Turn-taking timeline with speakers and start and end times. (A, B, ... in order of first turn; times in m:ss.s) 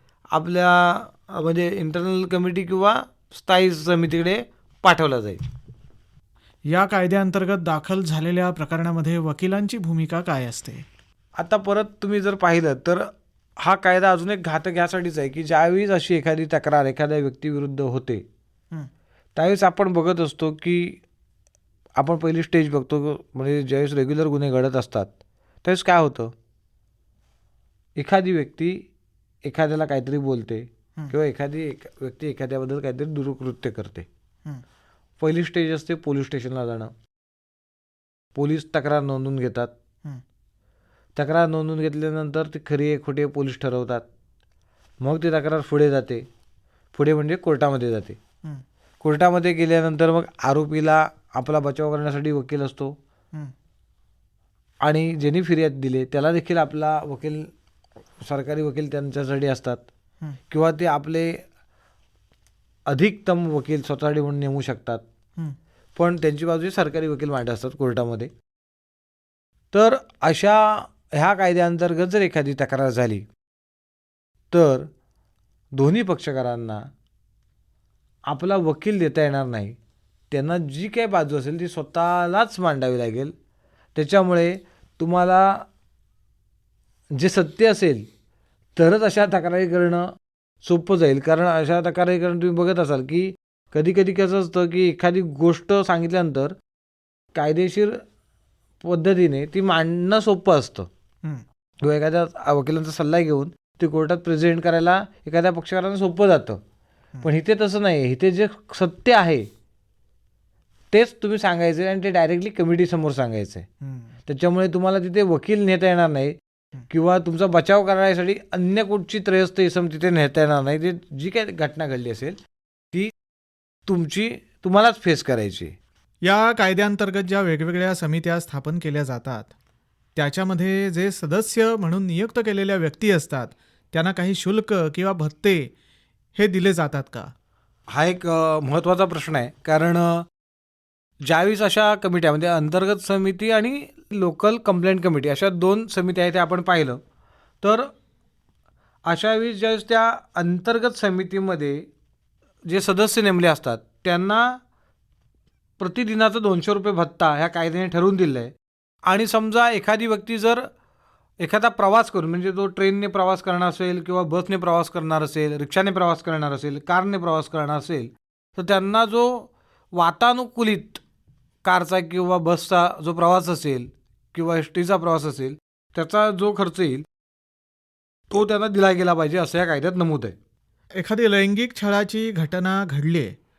0:00.3-0:05.4 A
0:06.7-0:10.8 B
0:11.4-0:13.1 A
0:13.6-0:18.2 A
0:19.3-0:21.0 A
0:22.0-0:25.1 A
0:25.6-0:26.3 A
0:28.0-0:28.8 A
0:29.4-0:34.1 A
0:35.2-0:36.9 A
0:38.3-0:39.7 A
0:41.2-0:44.0 A
0:45.0-0:46.2 A
0:46.9-0:48.2 A
0:49.0-0:53.0 A
0:54.8-0:57.5 A
0:58.2-0:59.8 A
1:00.5-1:01.4 A
1:02.9-1:05.0 A
1:06.0-1:08.3 A
1:09.7-1:13.2 A
1:14.5-1:14.9 A
1:15.7-1:16.8 A
1:18.3-1:19.8 A
1:20.3-1:23.3 A
1:23.9-1:25.6 A
1:27.1-1:28.1 A
1:28.8-1:30.1 A
1:30.6-1:36.5 A
1:37.3-1:38.0 A
1:38.8-1:40.9 A
1:41.8-1:46.6 A
1:47.2-1:49.5 A
1:50.9-1:53.7 A
1:53.8-1:54.1 B
1:54.3-1:56.4 A
1:56.9-2:02.4 A
2:03.9-2:05.7 A
2:06.2-2:09.5 B
2:10.2-2:15.7 B
2:16.3-2:17.3 B
2:17.9-2:20.2 A
2:21.2-2:27.0 A
2:27.6-2:27.9 A
2:29.0-2:31.8 A
2:32.6-2:34.6 A
2:35.8-2:38.5 A
2:39.0-2:40.6 A
2:41.4-2:51.0 A
2:51.6-2:57.0 A
2:58.3-3:00.3 A
3:01.0-3:03.4 B